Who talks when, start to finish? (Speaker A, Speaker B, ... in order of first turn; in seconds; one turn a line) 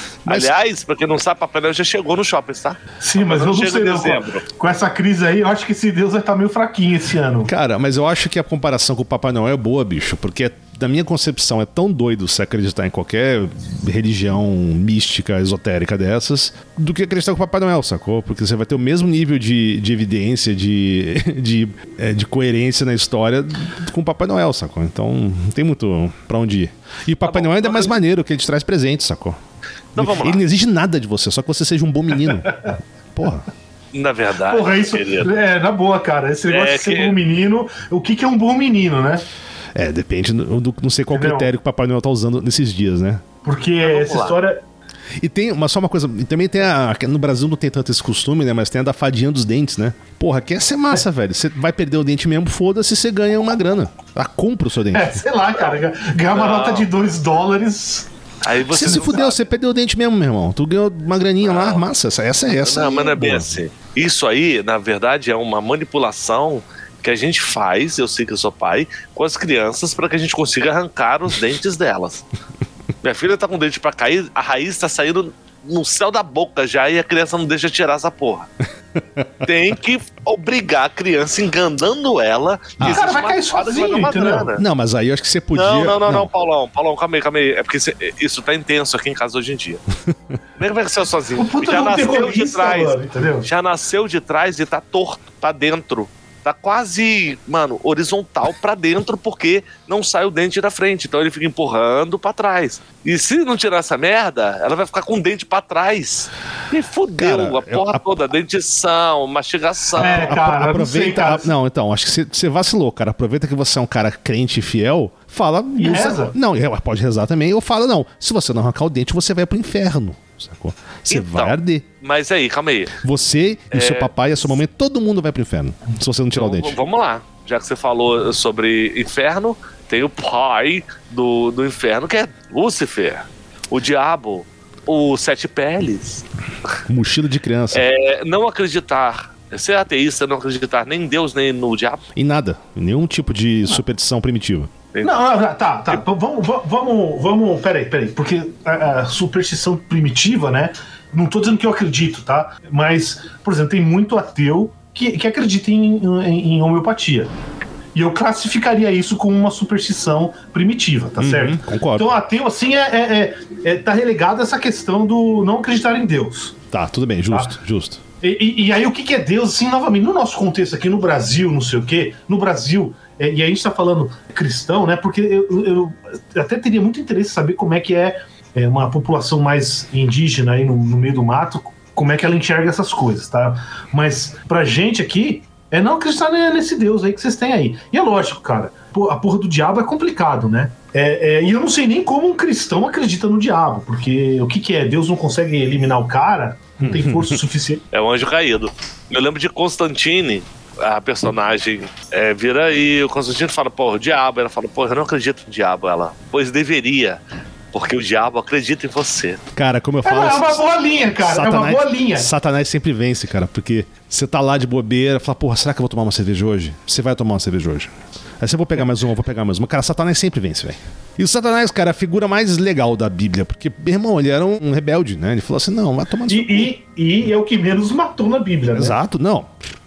Speaker A: 0.2-4.4
Speaker B: 0.3-0.5
Speaker C: 3.0-7.5
Speaker B: 7.4-29.4
Speaker A: 27.2-27.9
Speaker A: 29.9-30.4
Speaker B: 29.9-33.5
Speaker A: 33.9-35.3
Speaker C: 34.5-39.2
Speaker A: 36.5-37.2
Speaker B: 39.7-43.2
Speaker C: 41.1-41.5
Speaker C: 43.4-44.6
Speaker A: 43.8-44.4
Speaker B: 45.2-55.2
Speaker C: 54.9-58.1
Speaker A: 56.3-56.9
Speaker A: 58.4-59.4
Speaker B: 58.7-63.5
Speaker A: 61.4-61.8
Speaker A: 62.6-72.3
Speaker A: 73.0-78.5
Speaker A: 79.4-84.6
Speaker B: 82.8-83.0
Speaker C: 82.8-84.5
Speaker B: 84.6-86.3
Speaker A: 85.5-89.8
Speaker A: 90.6-110.3
Speaker C: 91.4-93.5
Speaker B: 107.2-108.0
Speaker C: 110.0-111.5
Speaker B: 110.0-121.8
Speaker C: 115.7-116.3
Speaker A: 121.1-123.0
Speaker B: 123.0-126.8
Speaker A: 123.7-124.1
Speaker A: 126.3-136.8
Speaker B: 136.9-137.8
Speaker A: 137.7-142.0
Speaker B: 142.2-144.7
Speaker C: 145.0-157.3
Speaker C: 157.9-166.6
Speaker B: 161.2-162.1
Speaker B: 166.7-168.0
Speaker C: 168.2-197.8
Speaker B: 196.8-197.4
Speaker A: 197.9-207.2
Speaker A: 207.7-209.4
Speaker B: 209.5-210.6
Speaker C: 210.0-212.3
Speaker B: 211.2-226.7
Speaker C: 226.3-229.0
Speaker B: 228.7-229.5